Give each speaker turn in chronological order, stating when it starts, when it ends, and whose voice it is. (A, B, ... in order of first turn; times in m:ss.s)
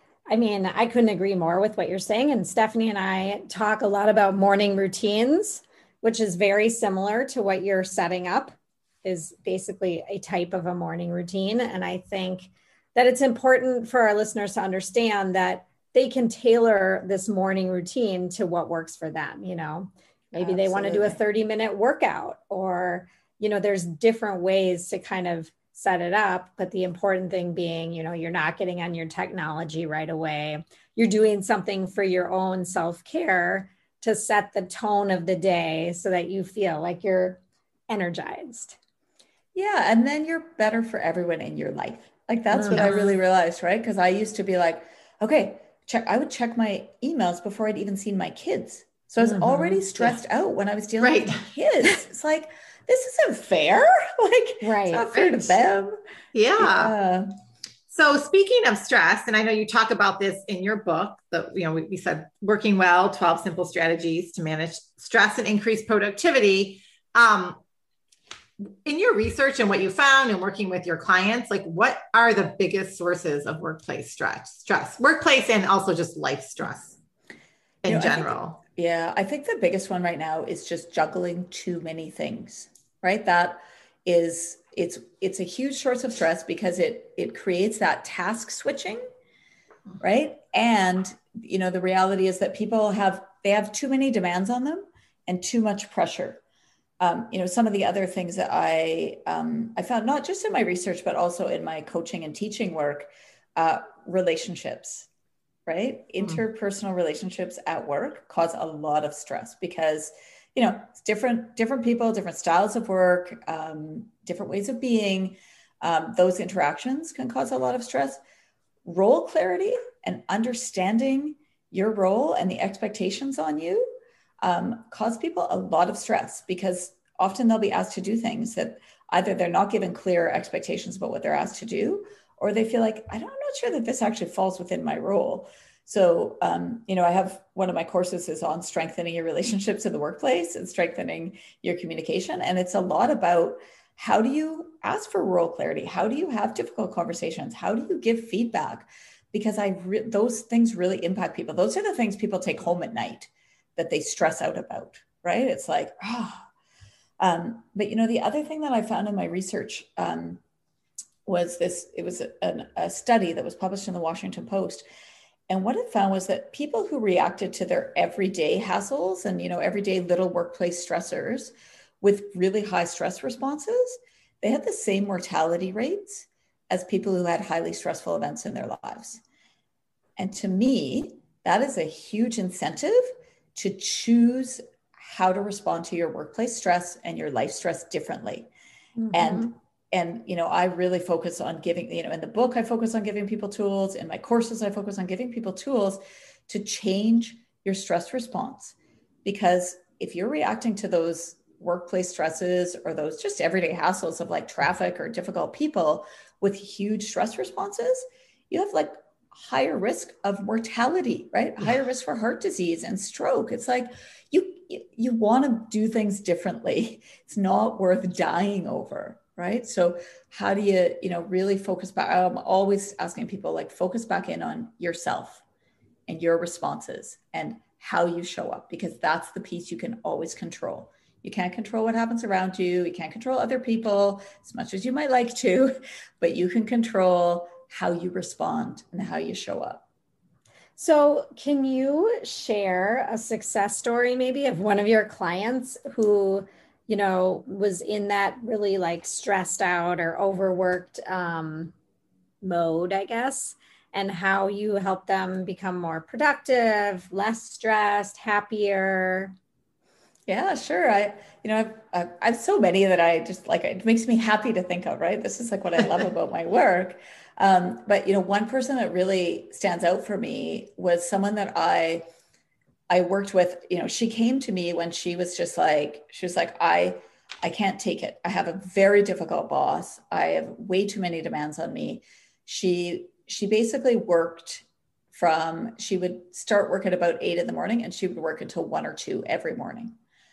0:00.3-0:38.8 A
0:20.4-0:21.2 B
0:39.5-0:55.9 B
0:42.5-0:43.1 A
0:49.2-0:49.8 A
0:51.0-0:51.4 C
0:54.6-0:55.1 A
0:56.3-0:56.9 C
0:56.6-0:57.3 B
0:57.9-1:07.6 C
1:08.8-1:17.0 C
1:17.8-1:18.6 C
1:17.8-1:29.0 B
1:30.0-1:36.4 B
1:37.0-1:45.1 B
1:45.7-1:58.2 B
1:58.8-2:36.4 B
2:37.2-2:40.4 B
2:41.2-2:44.8 B
2:45.5-2:59.2 B
3:00.2-3:08.5 B
3:09.0-3:09.5 A
3:09.1-3:45.4 B
3:46.1-3:59.8 B
4:00.8-4:11.7 A
4:12.4-4:19.3 A
4:20.3-4:32.0 B
4:32.9-4:49.9 B